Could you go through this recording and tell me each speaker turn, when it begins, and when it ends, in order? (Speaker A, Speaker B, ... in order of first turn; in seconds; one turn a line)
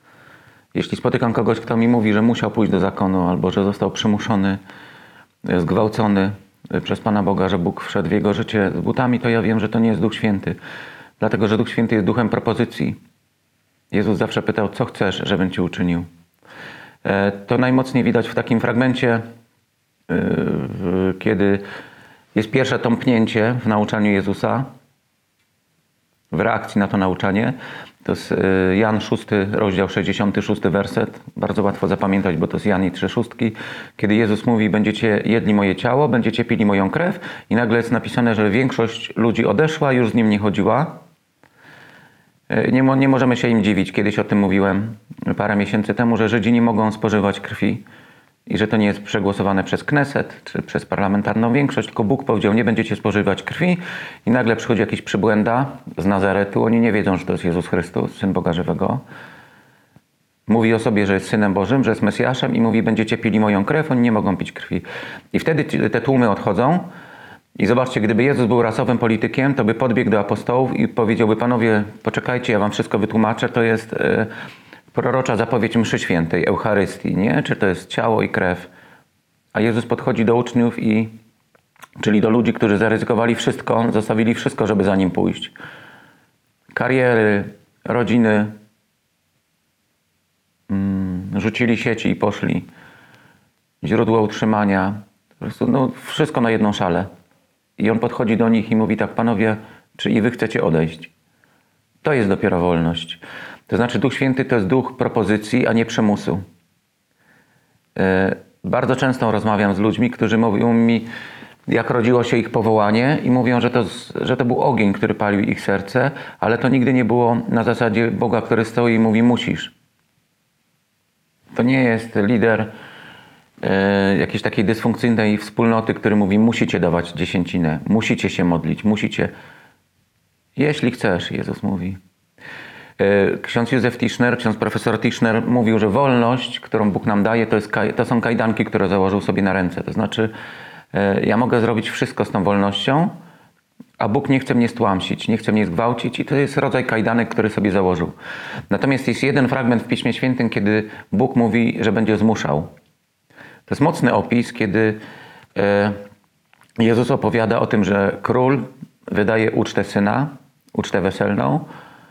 Speaker A: 0.7-4.6
Speaker A: 5.5-10.6
Speaker A: 11.2-13.0
Speaker A: 13.9-16.1
Speaker A: 17.0-19.2
Speaker A: 20.1-21.6
Speaker A: 22.4-24.7
Speaker A: 26.3-41.0
Speaker A: 42.5-47.8
Speaker A: 48.5-59.0
Speaker A: 60.5-66.9
Speaker A: 67.6-74.3
Speaker A: 74.9-78.7
Speaker A: 79.5-81.1
Speaker A: 82.0-85.5
Speaker A: 86.7-88.5
Speaker A: 90.7-92.7
Speaker A: 93.8-97.1
Speaker A: 97.8-101.1
Speaker A: 102.0-106.4
Speaker A: 108.0-111.1
Speaker A: 111.7-119.8
Speaker A: 121.5-122.7
Speaker A: 123.6-129.3
Speaker A: 130.6-132.0
Speaker A: 133.0-140.3
Speaker A: 140.9-143.1
Speaker A: 144.0-148.2
Speaker A: 148.7-152.7
Speaker A: 153.7-155.0
Speaker A: 155.6-156.0
Speaker A: 156.8-161.7